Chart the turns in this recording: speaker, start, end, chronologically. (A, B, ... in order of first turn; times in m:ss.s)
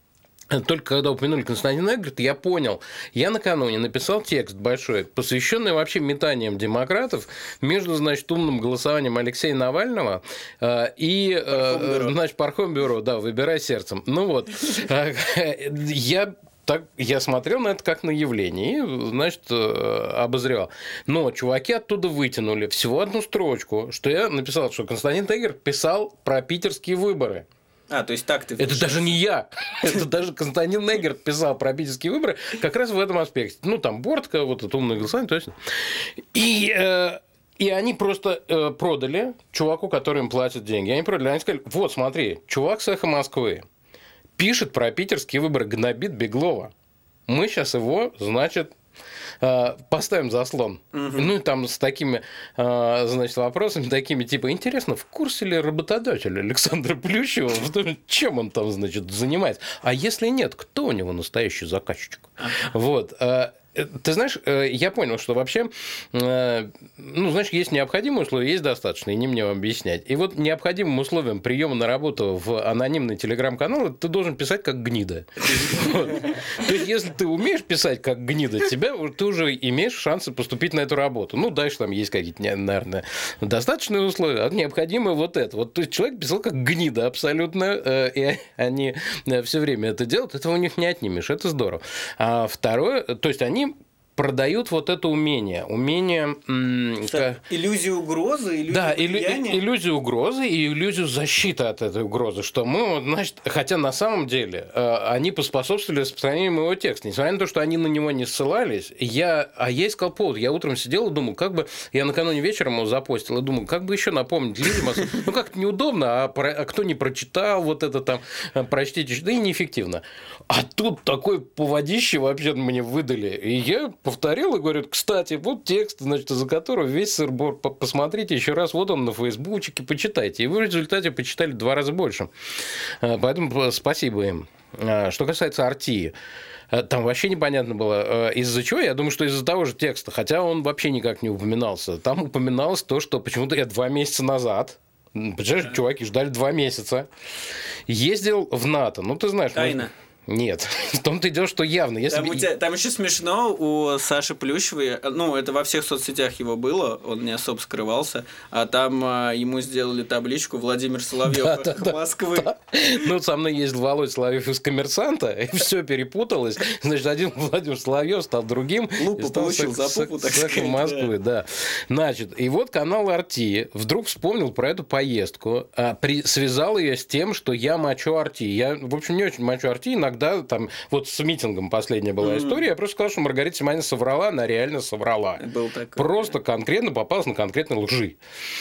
0:00.5-0:27.5 A
0:11.5-0:12.2 B
0:27.9-0:29.2 B
0:28.6-0:43.6 A
0:44.4-0:46.7 A
0:47.3-0:48.7 A
0:49.4-1:37.4 A
0:50.9-0:51.3 B
1:37.1-1:39.6 B
1:38.7-2:12.3 A
2:13.0-2:16.1 A
2:16.7-2:27.1 A
2:27.9-2:32.5 A
2:29.5-2:29.9 B
2:32.1-2:42.5 B
2:41.2-3:05.4 A
2:49.0-2:51.1 B
3:02.2-3:02.6 B
3:05.4-3:06.4 B
3:06.0-3:08.2 A